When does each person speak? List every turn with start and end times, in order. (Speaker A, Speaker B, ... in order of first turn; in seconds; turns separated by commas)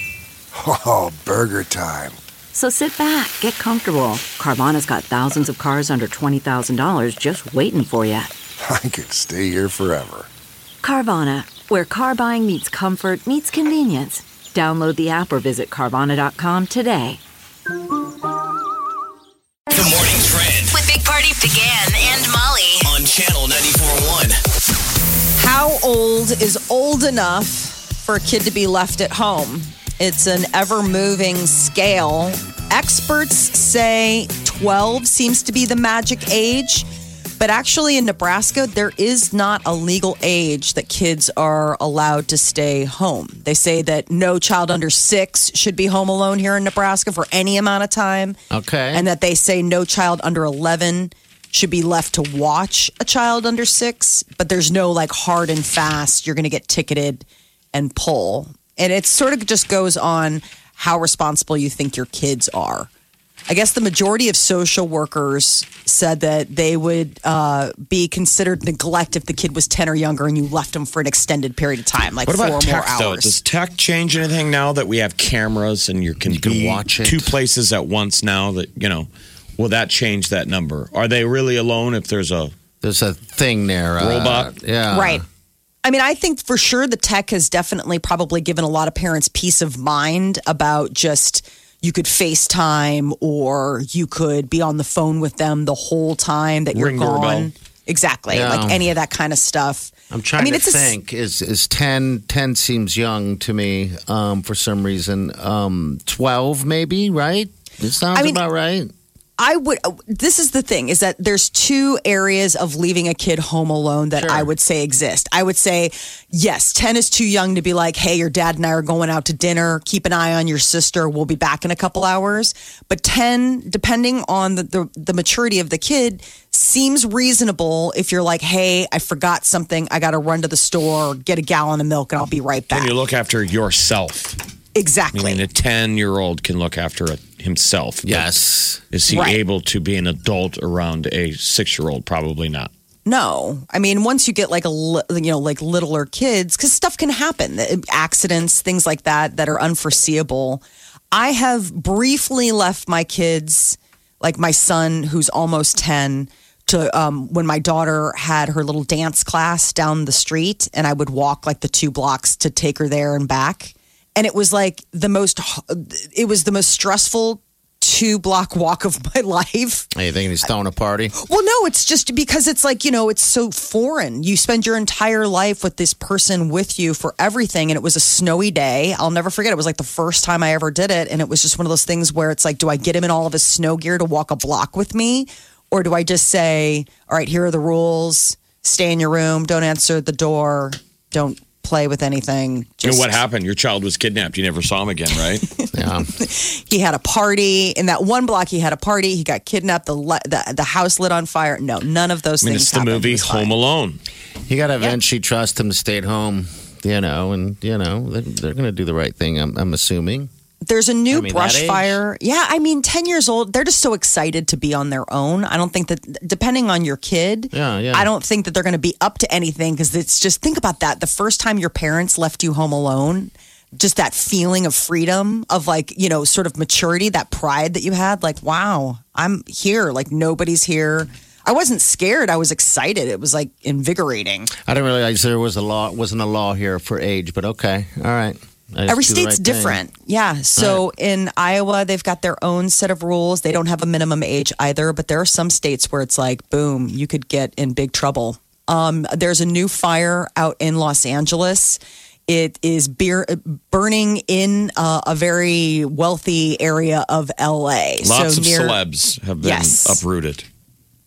Speaker A: 0.5-2.2, Speaker B: 2.5-8.3, Speaker A: 8.6-10.3, Speaker B: 10.8-17.2, Speaker C: 19.7-20.8, Speaker D: 20.7-22.9, Speaker C: 22.8-24.4, Speaker E: 25.4-36.9, Speaker E: 37.4-48.4, Speaker F: 48.5-49.1, Speaker E: 48.9-62.9, Speaker E: 63.5-73.4, Speaker G: 72.2-82.5, Speaker F: 76.2-77.3, Speaker F: 82.8-85.2, Speaker G: 84.0-84.5, Speaker E: 84.9-85.2, Speaker E: 85.8-100.9, Speaker G: 96.7-97.5, Speaker F: 98.3-98.9, Speaker F: 100.1-108.9, Speaker E: 108.1-108.4, Speaker E: 109.4-132.9, Speaker F: 114.2-114.5, Speaker G: 132.7-134.4, Speaker E: 134.7-135.4, Speaker G: 135.1-138.3, Speaker F: 138.0-138.8, Speaker G: 138.9-142.7, Speaker E: 139.1-139.4, Speaker E: 143.0-169.9, Speaker F: 169.9-171.1, Speaker E: 171.1-193.1, Speaker G: 192.8-195.5, Speaker F: 195.7-196.1, Speaker E: 196.1-203.5, Speaker G: 202.4-204.0, Speaker F: 204.4-210.3, Speaker E: 210.6-234.5, Speaker F: 211.1-212.0, Speaker F: 217.5-218.1, Speaker F: 234.7-239.8, Speaker E: 238.9-258.8, Speaker F: 240.6-240.8, Speaker G: 258.0-260.5, Speaker E: 259.4-260.0